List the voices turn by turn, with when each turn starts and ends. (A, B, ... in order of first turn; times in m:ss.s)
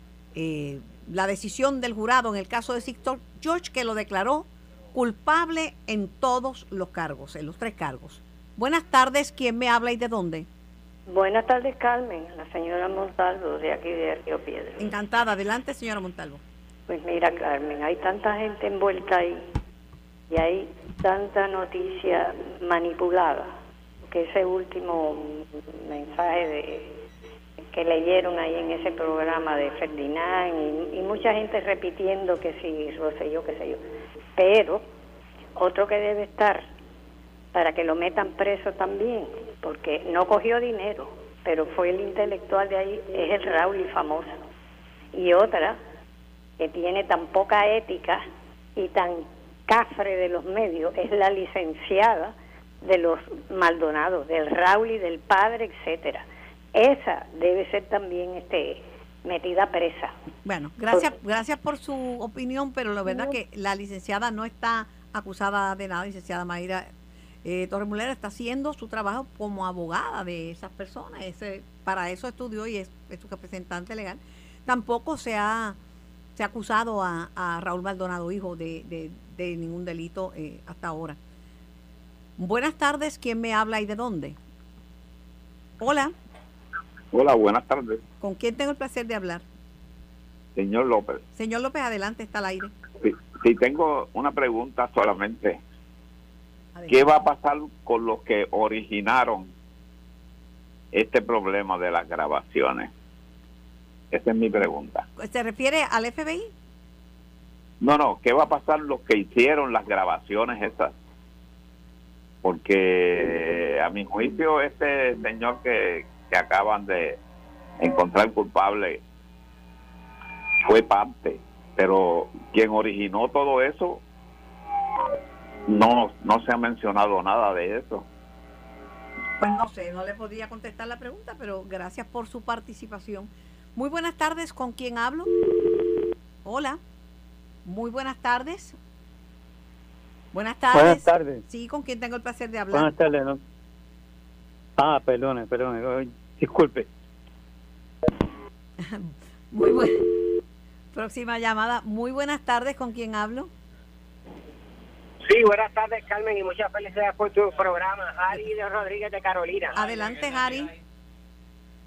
0:00.4-0:10.5 A
0:11.1-0:14.8 B
0:14.8-0:16.4 A
0:16.9-0:19.5 B
0:20.3-0:23.5 B
0:24.1-0:27.0 B
0:27.7-0:33.8 B
0:34.4-0:34.8 B
0:35.6-0:36.7 B
0:37.5-0:44.3 B
0:45.1-0:45.8 B
0:46.6-0:48.2 B
0:48.8-1:00.1 B
1:00.4-1:06.9 A
1:07.4-1:15.8 A
1:16.4-1:21.2 A
1:22.4-1:24.4 A
1:25.8-1:26.1 A
1:27.1-1:28.0 C
1:28.2-1:29.4 A
1:30.6-1:31.2 C
1:31.4-1:32.7 A
1:33.0-1:35.6 C
1:36.8-1:37.0 A
1:36.9-1:39.5 C
1:40.9-1:42.9 C
1:44.1-1:45.0 C
1:45.2-1:46.5 A
1:47.8-1:51.0 C
1:52.4-1:57.2 C
1:57.8-1:59.0 C
2:00.7-2:04.0 C
2:05.7-2:08.0 C
2:09.4-2:15.3 A
2:16.4-2:16.8 A
2:17.6-2:18.8 A
2:20.3-2:22.9 A
2:20.7-2:21.4 D
2:22.7-2:23.4 D
2:24.8-2:26.9 D
2:28.8-2:30.2 A
2:30.9-2:33.5 A
2:35.2-2:39.8 E
2:39.8-2:40.7 A